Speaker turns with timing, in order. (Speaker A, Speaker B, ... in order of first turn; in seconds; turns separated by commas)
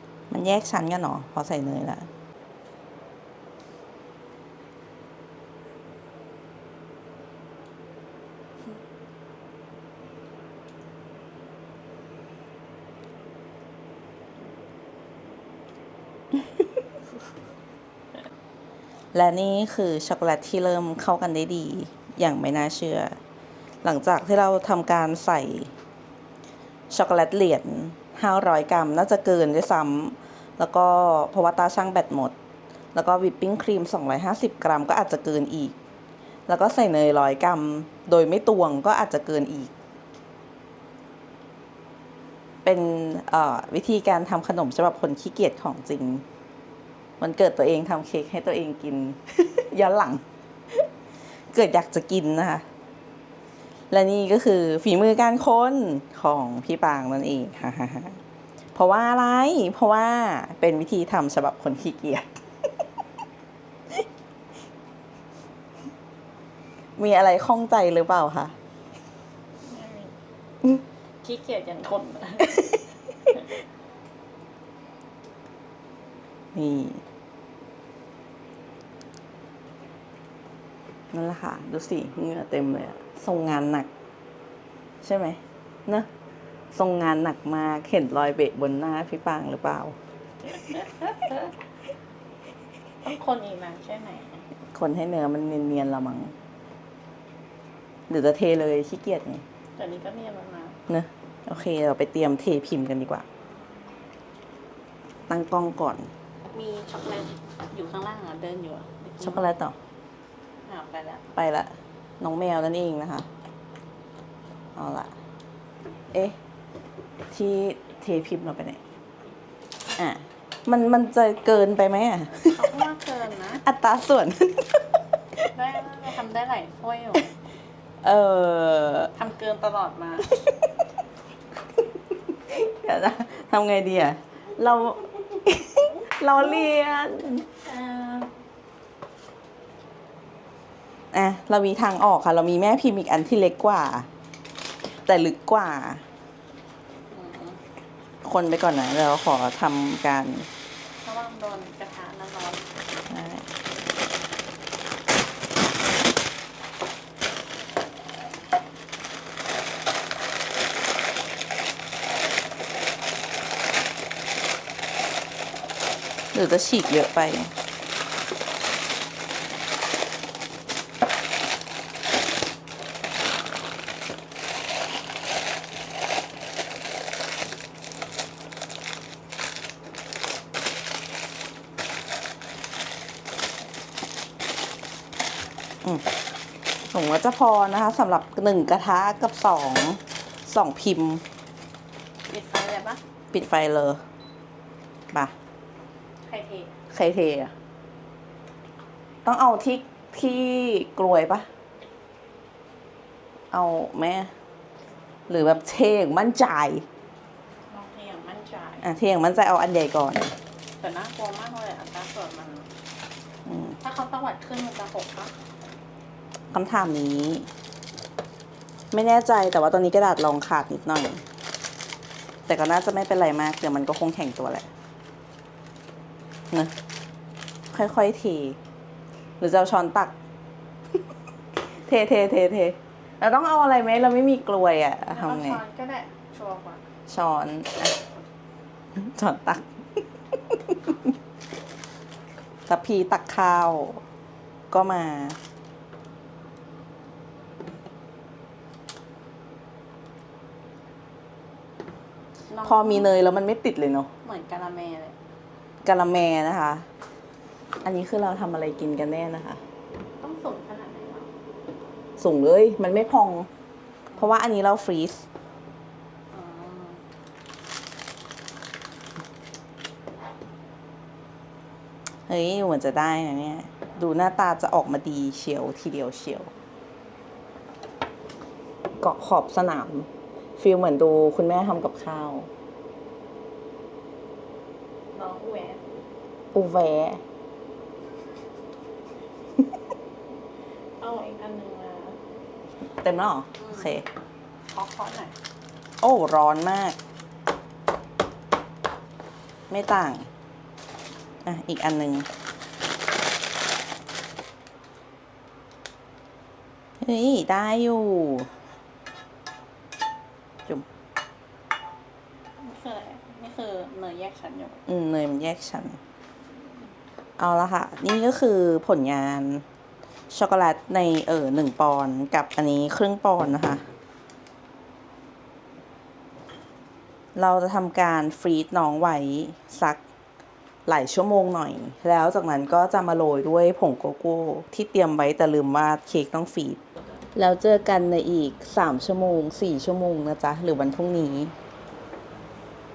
Speaker A: 0.3-2.1, Speaker A: 19.1-23.2, Speaker A: 23.8-25.7, Speaker A: 26.9-32.4, Speaker A: 33.0-35.8, Speaker A: 36.5-39.7, Speaker A: 42.6-46.2, Speaker A: 47.2-50.9, Speaker A: 51.5-52.7, Speaker A: 53.9-58.2, Speaker A: 58.8-62.3, Speaker A: 67.0-68.6, Speaker B: 69.6-70.1, Speaker B: 71.2-72.8, Speaker A: 76.5-77.0, Speaker A: 81.1-83.9, Speaker A: 85.0-86.1, Speaker A: 86.7-90.0, Speaker B: 90.5-91.5, Speaker B: 93.0-94.5, Speaker A: 94.7-96.4, Speaker A: 98.1-99.5, Speaker B: 99.8-100.8, Speaker A: 100.9-103.3, Speaker A: 105.3-106.1, Speaker B: 106.5-109.5, Speaker A: 109.2-109.8, Speaker B: 110.6-111.2, Speaker A: 111.3-113.3, Speaker A: 114.8-115.1, Speaker A: 116.1-116.4, Speaker A: 117.3-118.8, Speaker A: 120.0-122.7, Speaker B: 122.4-123.6, Speaker A: 123.6-124.9, Speaker B: 125.5-127.3, Speaker A: 128.0-129.1, Speaker B: 129.2-130.3, Speaker A: 132.3-137.5, Speaker B: 136.4-136.7, Speaker B: 137.6-138.3, Speaker A: 141.1-144.1, Speaker A: 145.0-146.1, Speaker B: 147.1-147.6, Speaker A: 148.2-150.5, Speaker B: 151.0-152.7, Speaker A: 153.1-153.5, Speaker A: 166.3-167.5, Speaker A: 186.9-191.2, Speaker B: 192.3-193.0, Speaker A: 193.3-194.0, Speaker B: 196.2-196.7, Speaker A: 196.9-197.5, Speaker A: 199.2-201.5, Speaker A: 203.5-204.3, Speaker A: 205.3-206.9, Speaker B: 207.7-208.9, Speaker A: 208.8-210.4, Speaker B: 210.8-212.7, Speaker A: 213.5-213.8, Speaker B: 213.8-215.4, Speaker A: 216.5-217.5, Speaker A: 218.9-221.2, Speaker A: 222.5-224.7, Speaker A: 227.7-228.6, Speaker A: 229.4-230.2, Speaker A: 231.8-235.6, Speaker B: 235.1-236.9, Speaker A: 237.1-238.0, Speaker A: 238.9-241.0, Speaker A: 242.7-244.0, Speaker A: 244.7-245.4, Speaker B: 252.5-253.1, Speaker A: 252.6-254.1, Speaker B: 254.2-255.2, Speaker A: 255.8-256.9, Speaker A: 257.8-259.6, Speaker B: 260.2-261.3, Speaker A: 262.2-263.5, Speaker A: 264.2-265.3, Speaker B: 266.3-267.1, Speaker A: 272.3-276.5, Speaker A: 279.0-282.5, Speaker B: 285.1-285.8, Speaker A: 286.5-287.2, Speaker B: 291.0-292.2, Speaker A: 293.0-294.1, Speaker B: 293.6-293.9, Speaker B: 294.7-295.4, Speaker A: 296.0-297.0, Speaker A: 299.7-300.3, Speaker A: 301.4-302.3, Speaker A: 307.0-308.5, Speaker B: 312.6-314.8, Speaker A: 314.9-316.0, Speaker A: 317.4-319.6, Speaker A: 320.3-323.8, Speaker A: 327.4-330.0, Speaker A: 330.9-336.8, Speaker A: 337.4-341.6